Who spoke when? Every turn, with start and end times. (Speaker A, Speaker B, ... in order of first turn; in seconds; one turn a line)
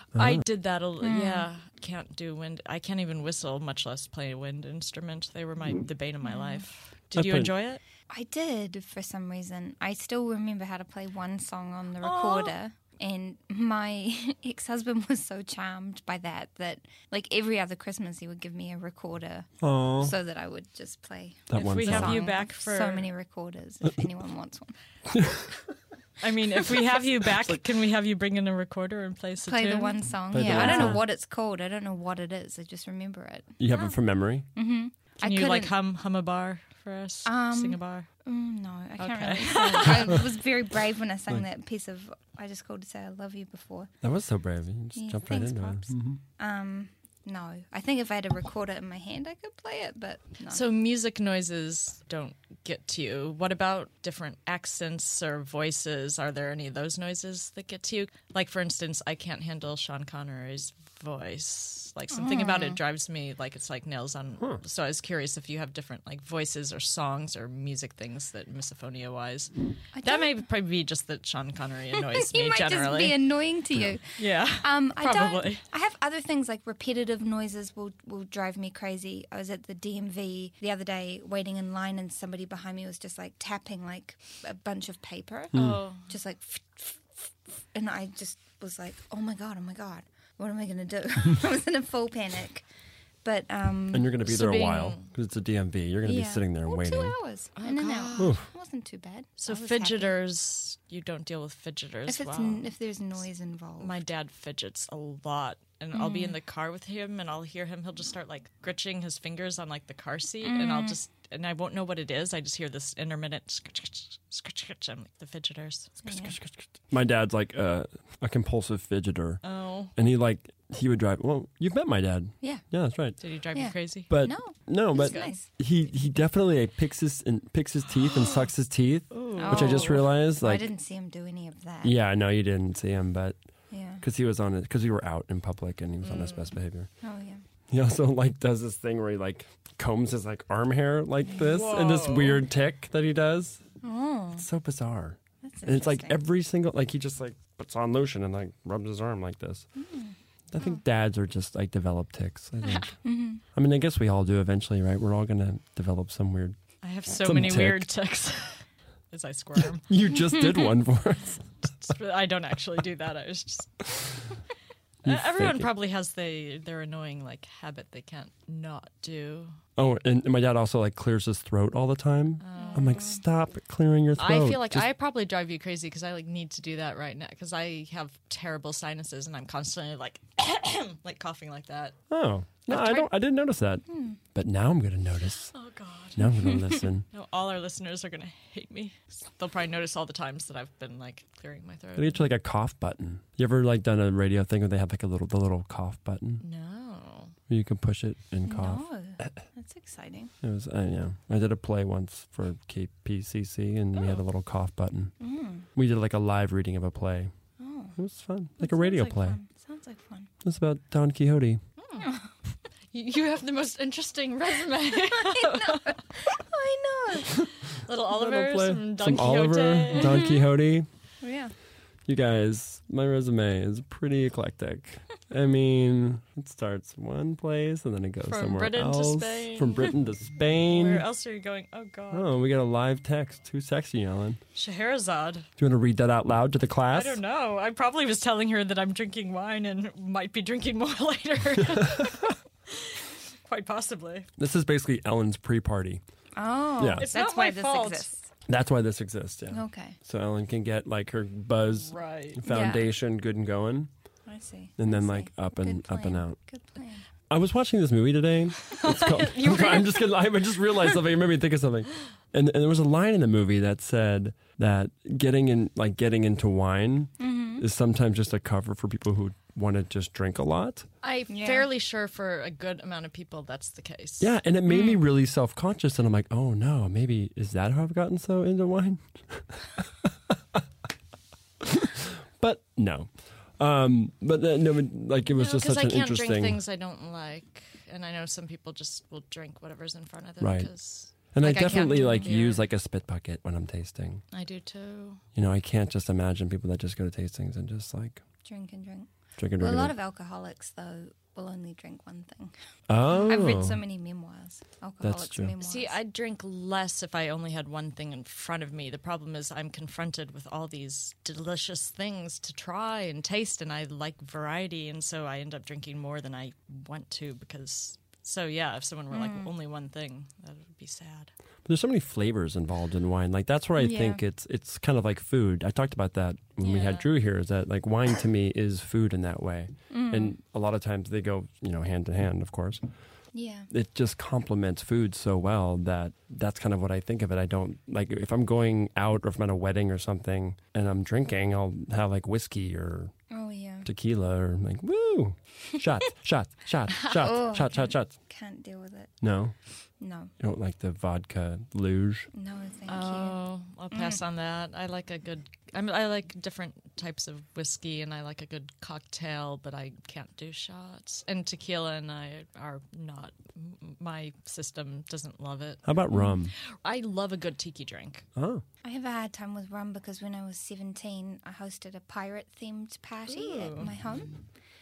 Speaker A: 0.1-0.4
Speaker B: 0.1-7.8
Speaker C: 1.0-1.5
Speaker C: 6.2-6.6
Speaker A: 7.1-7.5
Speaker C: 8.1-24.7
Speaker B: 12.0-12.5
Speaker A: 19.6-20.1
Speaker A: 21.5-22.2
Speaker B: 21.6-23.1
Speaker A: 25.1-25.5
Speaker B: 26.2-31.0
Speaker C: 29.4-33.9
Speaker A: 30.3-31.0
Speaker A: 33.6-34.5
Speaker C: 34.5-35.7
Speaker B: 35.2-38.1
Speaker C: 37.2-43.9
Speaker B: 39.0-40.2
Speaker A: 44.0-46.2
Speaker C: 44.9-50.6
Speaker B: 50.5-69.5
Speaker C: 62.1-62.8
Speaker C: 69.9-70.3
Speaker B: 70.0-73.2
Speaker C: 72.0-92.6
Speaker B: 74.2-75.6
Speaker B: 85.5-86.1
Speaker A: 85.5-85.8
Speaker C: 93.2-94.2
Speaker A: 93.9-97.2
Speaker B: 94.2-95.1
Speaker C: 96.0-100.2
Speaker B: 97.6-98.4
Speaker A: 98.2-98.5
Speaker B: 99.4-102.7
Speaker C: 102.1-104.0
Speaker B: 103.8-116.1
Speaker C: 105.9-106.4
Speaker C: 110.4-111.0
Speaker C: 116.0-116.3
Speaker A: 116.2-119.4
Speaker B: 119.4-119.9
Speaker A: 119.9-123.2
Speaker B: 123.2-124.1
Speaker C: 123.5-125.5
Speaker A: 124.1-130.7
Speaker B: 124.9-125.3
Speaker B: 129.1-130.1
Speaker C: 129.4-131.9
Speaker A: 131.8-133.4
Speaker C: 133.7-134.0
Speaker A: 134.0-136.9
Speaker B: 136.0-136.5
Speaker C: 137.0-137.4
Speaker A: 137.7-143.6
Speaker B: 141.3-142.4
Speaker C: 143.8-144.4
Speaker A: 144.4-149.7
Speaker C: 145.4-146.2
Speaker C: 149.8-150.7
Speaker A: 150.5-152.9
Speaker C: 153.0-153.4
Speaker A: 153.5-156.6
Speaker B: 156.8-159.9
Speaker A: 157.1-157.9
Speaker A: 159.8-161.7
Speaker B: 161.8-163.8
Speaker A: 165.0-165.7
Speaker B: 165.0-169.6
Speaker A: 169.8-174.8
Speaker B: 172.4-173.0
Speaker C: 172.6-173.2
Speaker B: 174.2-182.0
Speaker A: 182.1-185.5
Speaker B: 182.7-183.1
Speaker C: 183.9-184.2
Speaker B: 185.5-186.6
Speaker A: 186.2-187.0
Speaker B: 187.1-192.3
Speaker A: 191.9-196.4
Speaker B: 196.4-197.3
Speaker A: 197.5-199.3
Speaker C: 198.4-200.3
Speaker A: 200.4-205.1
Speaker C: 205.2-205.7
Speaker A: 205.7-207.3
Speaker C: 207.6-207.9
Speaker A: 207.9-209.4
Speaker C: 208.6-210.3
Speaker A: 210.4-211.6
Speaker B: 211.8-212.1
Speaker C: 212.0-212.3
Speaker B: 212.9-216.0
Speaker C: 215.1-217.5
Speaker B: 217.7-220.3
Speaker A: 218.1-220.9
Speaker C: 221.2-221.5
Speaker A: 222.1-231.0
Speaker B: 228.3-229.9
Speaker B: 230.7-232.3
Speaker A: 232.1-234.4
Speaker B: 234.5-235.5
Speaker A: 235.6-237.2
Speaker B: 236.9-244.3
Speaker A: 241.8-242.1
Speaker A: 244.4-246.0
Speaker C: 246.3-248.3
Speaker A: 246.8-247.1
Speaker B: 247.0-248.1
Speaker A: 248.5-253.9
Speaker C: 249.5-250.0
Speaker B: 251.7-252.4
Speaker C: 252.4-252.9
Speaker C: 254.2-257.0
Speaker A: 254.8-256.4
Speaker A: 257.3-270.9
Speaker B: 258.7-260.1
Speaker C: 267.2-267.6
Speaker B: 271.0-275.0
Speaker C: 271.3-271.7
Speaker A: 274.2-280.6
Speaker A: 281.6-286.6
Speaker B: 285.3-292.6
Speaker A: 290.4-294.2
Speaker B: 294.3-295.2
Speaker A: 295.3-298.2
Speaker C: 298.4-302.5
Speaker A: 299.4-299.9
Speaker A: 302.9-303.8
Speaker B: 303.1-303.4
Speaker C: 303.2-305.9
Speaker A: 305.0-305.5
Speaker B: 305.6-321.3
Speaker C: 319.1-319.5
Speaker A: 321.6-332.8
Speaker C: 323.8-324.2
Speaker B: 326.6-327.1
Speaker C: 329.9-330.3
Speaker C: 333.3-333.7
Speaker A: 333.7-343.1
Speaker C: 343.3-343.9
Speaker A: 343.8-348.1
Speaker C: 347.1-349.1
Speaker A: 349.2-349.5
Speaker C: 350.0-350.3
Speaker A: 350.4-352.3
Speaker C: 352.3-353.4
Speaker B: 352.9-368.2
Speaker C: 353.9-354.2
Speaker A: 365.8-366.5
Speaker A: 368.4-368.6
Speaker C: 368.8-374.4
Speaker B: 373.3-373.9